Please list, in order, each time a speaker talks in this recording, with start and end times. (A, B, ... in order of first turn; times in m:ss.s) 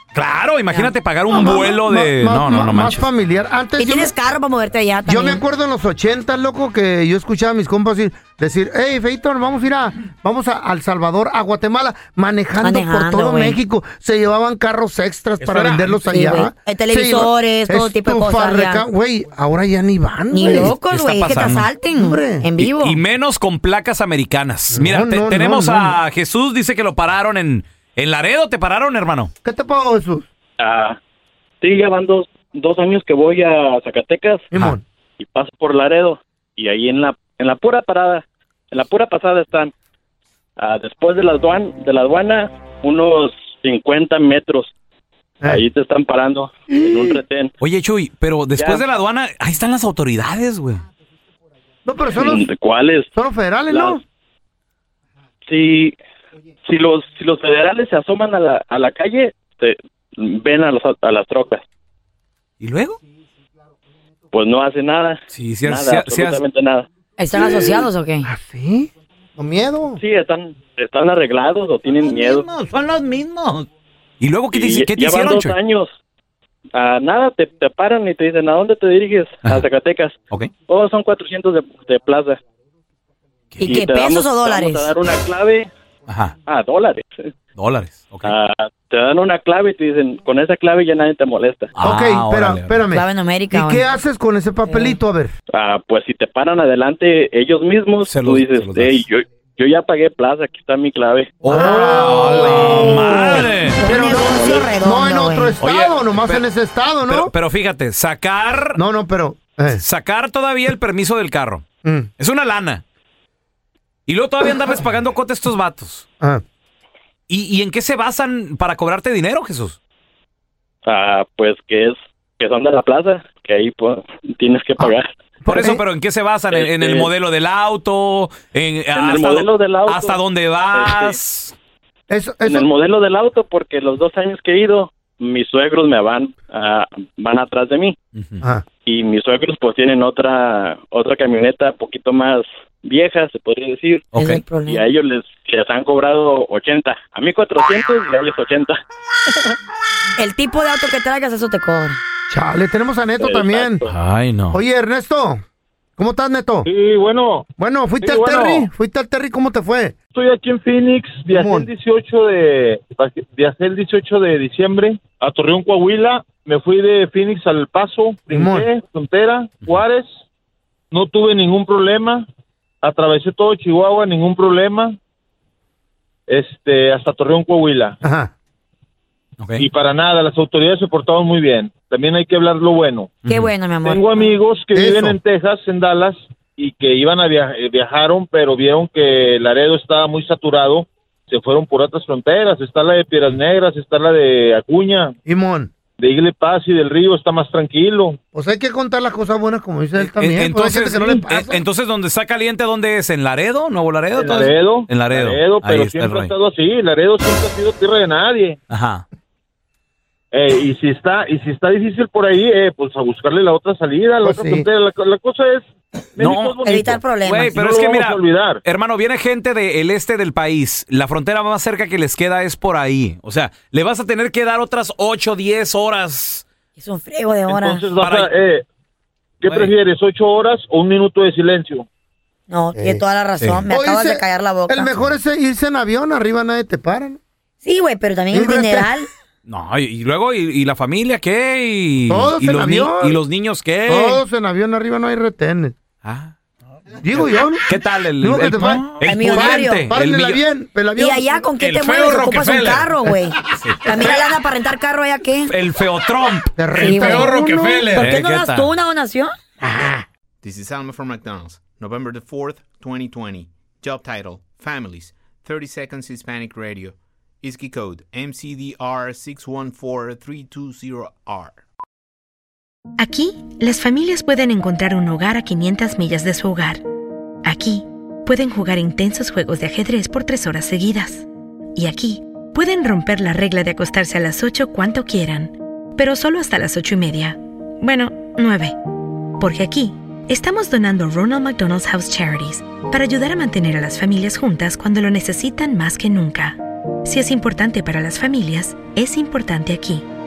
0:00.1-0:03.1 A
0:01.3-0:04.1 B
0:03.8-0:05.4 C
0:05.1-0:20.8 B
0:12.6-0:13.6 C
0:15.5-0:15.9 A
0:16.0-0:18.8 C
0:20.3-0:23.0 C
0:20.9-0:21.7 A
0:21.9-0:22.5 B
0:22.6-0:29.3 A
0:24.7-0:26.0 B
0:29.4-0:30.3 B
0:30.6-0:31.0 D
0:31.6-0:34.4 D
0:34.5-0:34.8 B
0:35.2-0:39.7 D
0:40.6-0:44.7 D
0:45.5-0:47.5 D
0:46.7-0:47.2 B
0:47.6-0:50.8 A
0:51.8-0:52.5 B
0:52.1-0:53.1 D
0:53.1-0:54.0 B
0:53.7-0:54.0 D
0:55.5-0:56.0 D
0:56.7-1:01.6 D
1:02.6-1:03.0 A
1:04.3-1:06.9 D
1:05.3-1:06.4 A
1:07.2-1:08.3 C
1:07.3-1:10.0 B
1:10.0-1:12.4 D
1:12.0-1:13.7 A
1:14.2-1:15.6 A
1:14.5-1:15.9 D
1:16.7-1:22.4 D
1:23.5-1:23.9 A
1:23.6-1:25.0 C
1:24.0-1:25.7 D
1:26.1-1:26.4 A
1:26.4-1:27.1 D
1:27.6-1:28.4 A
1:28.3-1:31.7 D
1:31.8-1:32.8 A
1:31.8-1:35.4 B
1:32.9-1:33.8 C
1:34.7-1:35.0 C
1:35.5-1:41.3 D
1:38.1-1:39.1 A
1:41.4-1:43.8 A
1:41.4-1:47.3 B
1:43.8-1:45.5 C
1:45.6-1:46.4 A
1:47.1-1:48.8 A
1:48.7-1:49.8 B
1:49.8-1:51.6 A
1:51.8-1:52.1 B
1:52.2-1:52.8 A
1:54.1-1:56.1 A
1:57.3-1:59.8 A
2:00.8-2:05.1 D
2:04.8-2:05.8 B
2:05.5-2:11.6 A
2:06.5-2:07.1 D
2:08.9-2:10.2 D
2:10.7-2:11.1 D
2:12.1-2:12.7 B
2:12.5-2:18.0 D
2:18.2-2:18.4 A
2:18.4-2:18.7 B
2:18.8-2:24.1 D
2:24.1-2:24.9 C
2:24.1-2:24.5 A
2:24.8-2:28.8 D
2:30.2-2:32.0 C
2:32.3-2:33.8 B
2:33.2-2:33.9 D
2:33.9-2:34.6 A
2:34.5-2:35.4 B
2:36.0-2:36.7 B
2:36.7-2:37.5 E
2:37.6-2:40.0 B
2:38.0-2:38.7 E
2:40.1-2:50.1 E
2:41.3-2:41.7 B
2:48.3-2:48.7 B
2:50.9-2:52.3 E
2:52.8-2:55.0 E
2:56.3-2:58.0 E
2:58.0-2:58.3 B
2:59.4-2:59.6 A
2:59.6-3:03.1 E
3:03.2-3:03.5 A
3:03.3-3:04.0 C
3:03.8-3:15.2 E
3:04.8-3:05.2 B
3:15.3-3:15.7 B
3:16.0-3:18.2 E
3:18.3-3:21.6 B
3:20.0-3:26.3 A
3:24.2-3:28.6 E
3:28.7-3:29.0 A
3:30.3-3:35.6 E
3:34.2-3:34.7 B
3:36.2-3:38.6 E
3:36.2-3:46.4 A
3:36.6-3:37.6 C
3:46.8-3:47.9 C
3:47.5-3:48.6 E
3:48.0-3:48.3 A
3:49.4-3:51.9 E
3:49.4-3:49.7 A
3:52.5-3:55.0 C
3:52.7-3:53.0 B
3:53.7-3:57.2 B
3:57.6-3:59.1 C
3:58.3-3:59.1 B
3:59.5-4:04.2 A
4:02.1-4:03.2 B
4:03.9-4:05.8 B
4:06.0-4:06.3 A
4:07.0-4:11.4 B
4:07.2-4:10.4 A
4:09.0-4:09.9 C
4:11.0-4:15.5 C
4:11.6-4:14.2 A
4:13.0-4:13.3 B
4:15.5-4:18.7 A
4:16.6-4:18.1 B
4:16.8-4:19.3 C
4:19.7-4:20.0 B
4:20.4-4:31.6 F
4:33.0-4:36.8 G
4:37.4-4:48.8 G
4:49.4-5:00.1 G